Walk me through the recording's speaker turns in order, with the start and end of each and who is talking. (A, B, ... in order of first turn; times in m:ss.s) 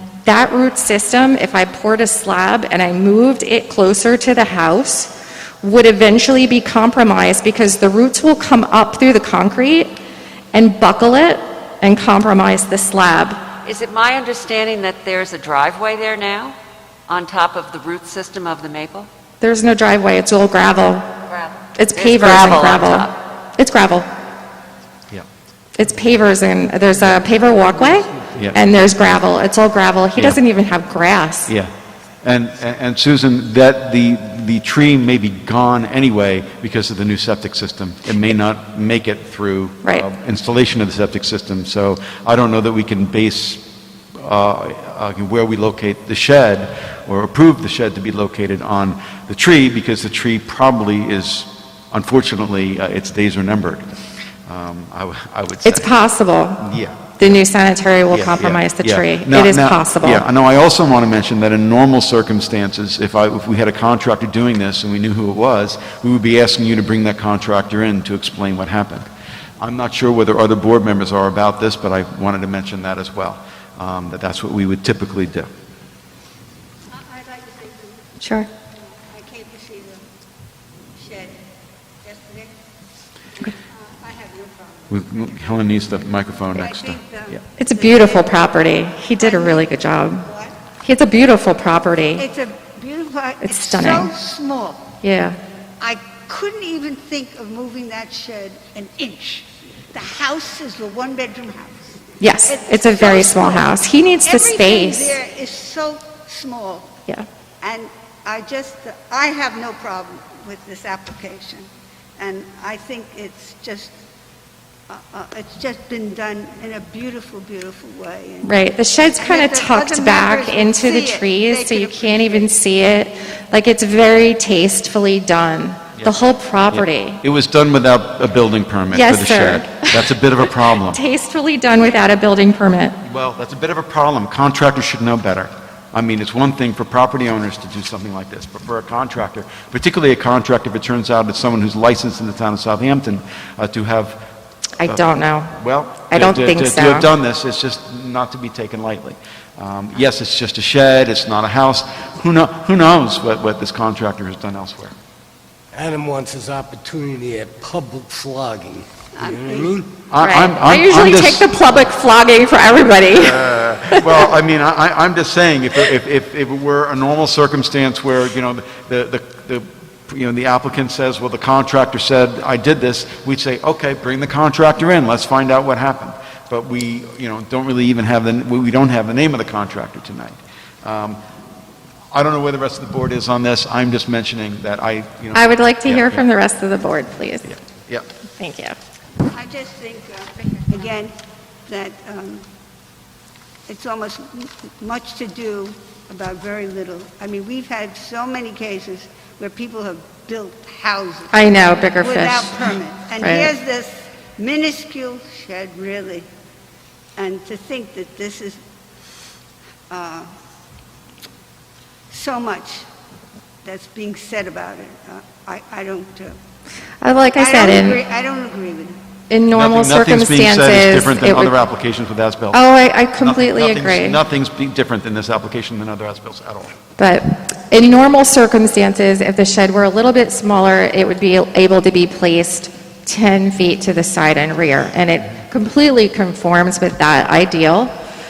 0:00.2-0:09.9 A
0:10.5-0:13.4 A
0:13.6-0:16.6 B
0:17.1-0:19.1 B
0:19.4-0:21.1 A
0:21.3-0:23.1 B
0:21.8-0:24.1 A
0:25.8-0:31.5 A
0:27.7-0:28.5 C
0:32.2-0:53.9 D
0:54.5-0:55.9 D
0:55.6-0:56.6 A
0:56.6-0:57.3 D
0:57.2-1:00.2 A
0:58.1-1:09.0 D
1:09.6-1:15.5 D
1:16.9-1:18.2 E
1:18.2-1:18.5 A
1:18.9-1:20.0 E
1:21.0-1:21.4 E
1:22.0-1:22.6 E
1:23.4-1:25.0 E
1:24.9-1:27.4 D
1:26.5-1:28.3 E
1:27.6-1:30.2 A
1:29.2-1:30.6 E
1:30.8-1:32.2 A
1:32.2-1:34.9 E
1:33.4-1:34.1 A
1:35.0-1:35.4 A
1:35.8-1:46.9 E
1:42.2-1:45.1 A
1:47.6-1:53.9 E
1:54.9-1:58.5 E
1:58.4-2:07.2 A
1:59.2-2:02.5 E
2:06.7-2:11.0 D
2:08.9-2:10.1 A
2:10.8-2:13.0 A
2:13.0-2:24.2 D
2:24.8-2:25.6 A
2:24.8-2:34.9 D
2:26.1-2:27.1 A
2:35.7-2:39.9 C
2:39.2-2:39.7 E
2:40.1-2:41.5 D
2:40.2-2:44.2 A
2:43.1-3:01.2 D
3:02.1-3:06.2 D
3:05.3-3:07.5 A
3:07.5-3:08.1 D
3:08.4-3:08.8 A
3:09.2-3:12.4 E
3:13.7-3:26.3 E
3:21.3-3:22.6 A
3:23.2-3:23.5 A
3:27.2-3:28.6 E
3:29.9-3:30.3 E
3:32.1-3:32.9 E
3:33.6-3:36.4 E
3:37.0-3:38.0 A
3:37.4-3:39.0 E
3:39.3-3:41.5 A
3:39.5-3:42.6 D
3:42.5-3:44.2 A
3:43.2-3:46.7 D
3:47.0-3:57.9 A